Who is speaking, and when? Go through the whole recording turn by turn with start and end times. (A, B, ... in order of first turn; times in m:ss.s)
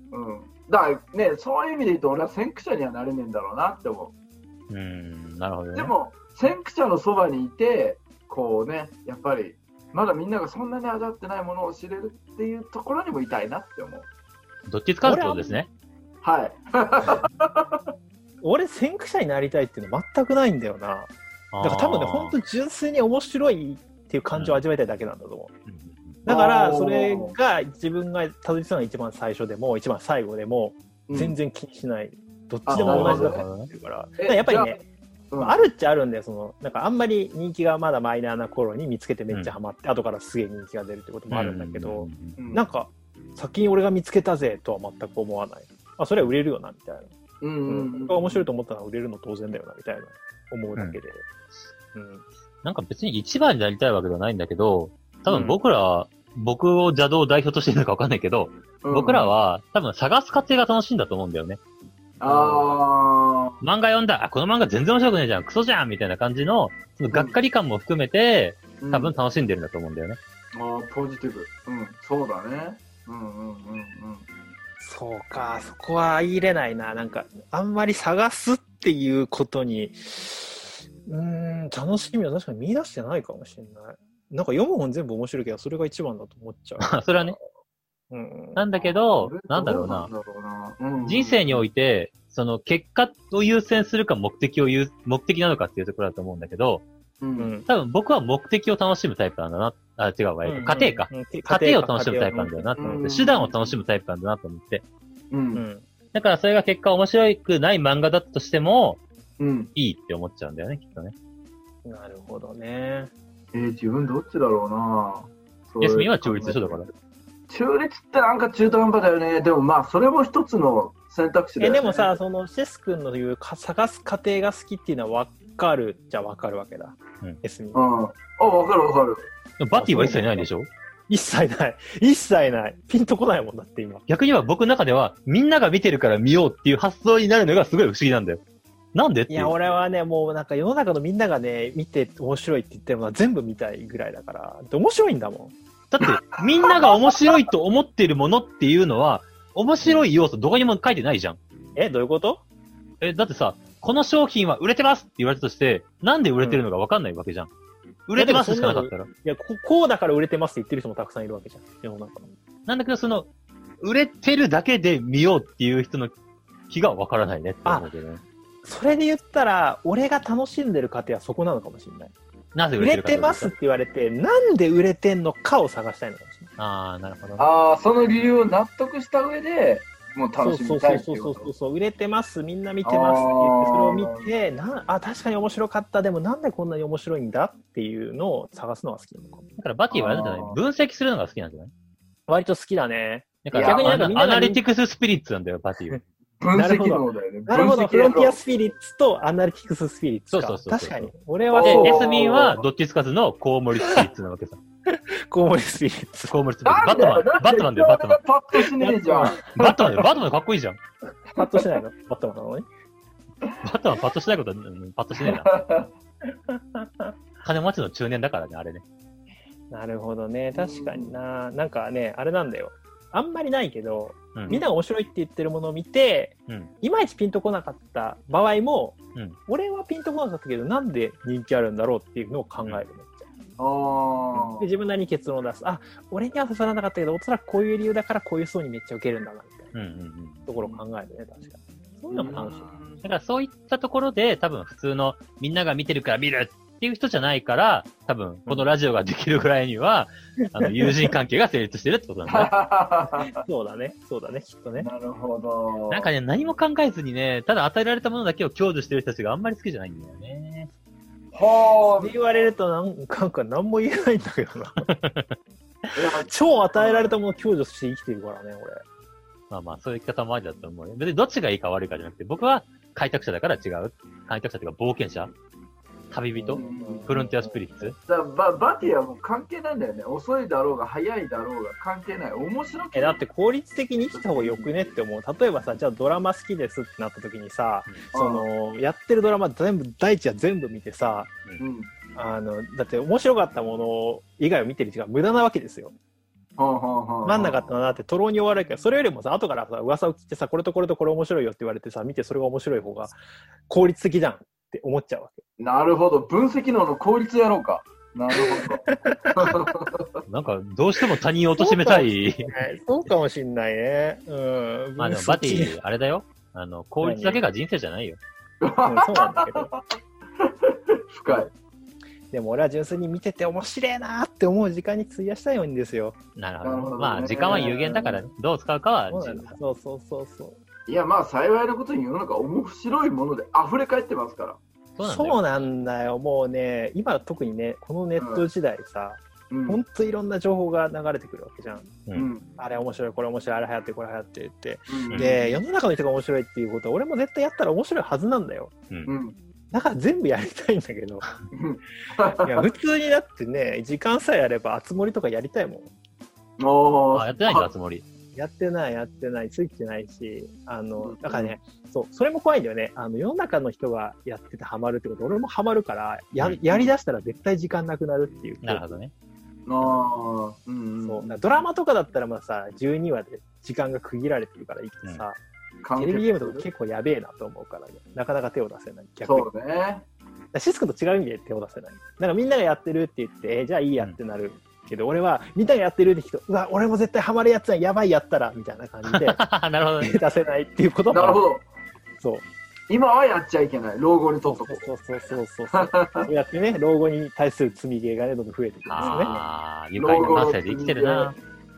0:00.1-0:04.1 A
0:04.7-0:05.9 B
0:05.7-0:14.1 A
0:14.7-0:15.7 B
0:15.0-0:15.6 C
0:16.2-0:17.8 A
0:18.4-0:25.5 C
0:21.5-0:22.3 B
0:24.3-0:24.6 B
0:25.7-0:26.2 B
0:26.2-0:34.8 C
0:26.3-0:27.3 A
0:31.1-0:31.4 A
0:32.6-0:33.4 A
0:32.7-0:33.7 B
0:34.2-0:34.7 A
0:35.3-0:35.6 A
0:35.4-0:47.1 C
0:41.3-0:42.4 B
0:42.4-0:42.6 A
0:47.4-0:48.4 A
0:47.7-0:51.2 C
0:51.9-0:52.2 C
0:52.6-1:01.6 B
0:55.3-0:55.6 C
0:58.8-0:59.3 A
1:02.2-1:03.6 A
1:02.2-1:02.7 C
1:03.6-1:10.2 B
1:08.8-1:09.1 A
1:10.5-1:14.2 A
1:14.8-1:27.0 C
1:26.8-1:27.4 B
1:28.1-1:28.6 C
1:28.6-1:30.1 B
1:28.7-1:31.6 A
1:31.0-1:36.8 B
1:37.2-1:37.5 A
1:37.4-1:37.7 C
1:37.7-1:44.8 B
1:40.4-1:43.0 C
1:42.8-1:43.7 A
1:45.3-1:45.6 A
1:45.5-1:45.8 C
1:46.1-1:49.0 B
1:49.4-1:49.7 A
1:49.7-1:51.1 B
1:51.8-1:53.1 C
1:53.5-1:56.9 A
1:55.8-1:56.9 B
1:57.5-2:02.1 A
2:01.6-2:07.8 C
2:07.7-2:09.3 A
2:09.6-2:10.7 B
2:09.7-2:10.5 C
2:11.1-2:14.0 C
2:14.1-2:18.4 B
2:18.9-2:19.5 B
2:19.3-2:25.5 C
2:25.9-2:31.4 B
2:26.0-2:27.4 A
2:31.7-2:32.4 C
2:33.0-2:37.5 B
2:38.1-2:39.1 B
2:38.2-2:42.3 C
2:42.7-2:43.3 B
2:43.8-2:46.1 B
2:46.7-2:48.2 B
2:48.6-2:52.1 C
2:52.5-2:53.5 B
2:52.8-2:56.5 C
2:56.6-2:57.5 B
2:57.4-3:01.5 A
3:00.4-3:09.4 C
3:02.8-3:04.3 A
3:09.6-3:11.7 B
3:09.9-3:10.6 A
3:12.3-3:14.6 C
3:13.4-3:16.0 B
3:13.5-3:14.2 A
3:16.4-3:18.4 A
3:16.5-3:22.6 C
3:20.3-3:24.6 B
3:21.5-3:22.6 A
3:24.9-3:26.4 C
3:26.3-3:28.2 B
3:26.6-3:29.4 A
3:26.9-3:27.1 C
3:28.8-3:30.1 C
3:29.5-3:30.8 B
3:31.3-3:31.8 A
3:31.4-3:32.7 C
3:33.6-3:35.5 B
3:35.1-3:35.9 A
3:36.3-3:37.1 C
3:37.4-3:38.8 B
3:39.7-3:53.3 C
3:40.5-3:41.2 A
3:53.6-3:54.7 A
3:54.3-3:59.7 C
3:59.7-4:00.4 B
4:00.5-4:02.7 C
4:02.1-4:03.0 A
4:03.0-4:12.5 B
4:10.6-4:10.9 C
4:12.3-4:13.4 A
4:13.2-4:14.9 C
4:14.8-4:16.1 A
4:15.9-4:20.7 B
4:21.3-4:22.2 A
4:21.9-4:24.9 C
4:24.8-4:25.3 B
4:25.9-4:27.1 A
4:26.2-4:28.8 C
4:29.5-4:35.3 B
4:36.1-4:37.9 B
4:36.3-4:38.0 C
4:36.5-4:37.1 A
4:38.1-4:43.2 A
4:42.9-4:51.3 C
4:44.1-4:44.9 A
4:48.1-4:48.5 A
4:51.6-4:51.9 A
4:52.1-4:55.9 C
4:56.6-4:57.7 A
4:57.2-5:03.1 C
5:03.7-5:05.4 C
5:05.6-5:10.0 A
5:08.4-5:09.5 C
5:10.3-5:12.5 B
5:11.0-5:15.8 C
5:15.0-5:18.2 B
5:17.0-5:17.4 C
5:18.6-5:21.5 A
5:18.9-5:19.7 C
5:22.3-5:26.2 C
5:26.4-5:29.6 B
5:26.6-5:28.0 A
5:27.4-5:28.2 C
5:29.1-5:30.6 C
5:30.9-5:34.6 A
5:35.0-5:35.4 B
5:35.0-5:42.0 C
5:38.2-5:38.5 A
5:39.5-5:39.8 A
5:42.1-5:42.5 A
5:42.6-5:48.7 C
5:44.9-5:45.3 A
5:45.1-5:45.4 B
5:49.0-5:49.4 A
5:49.7-5:51.2 C
5:51.5-5:52.7 A
5:52.4-5:55.9 C
5:56.6-5:57.7 A
5:57.1-5:58.0 B
5:58.3-6:09.0 C
6:01.0-6:01.5 A
6:08.6-6:09.1 B
6:09.7-6:11.6 A
6:11.0-6:15.4 C
6:15.8-6:16.6 A
6:16.0-6:19.5 C
6:19.2-6:20.0 A
6:20.5-6:29.4 C
6:29.1-6:30.2 B
6:30.0-6:31.4 C
6:31.1-6:31.7 A
6:32.2-6:32.4 C
6:32.9-6:36.3 A
6:34.5-6:39.4 C
6:38.9-6:41.4 B
6:39.0-6:39.4 A
6:40.0-6:41.3 A
6:40.1-6:40.4 C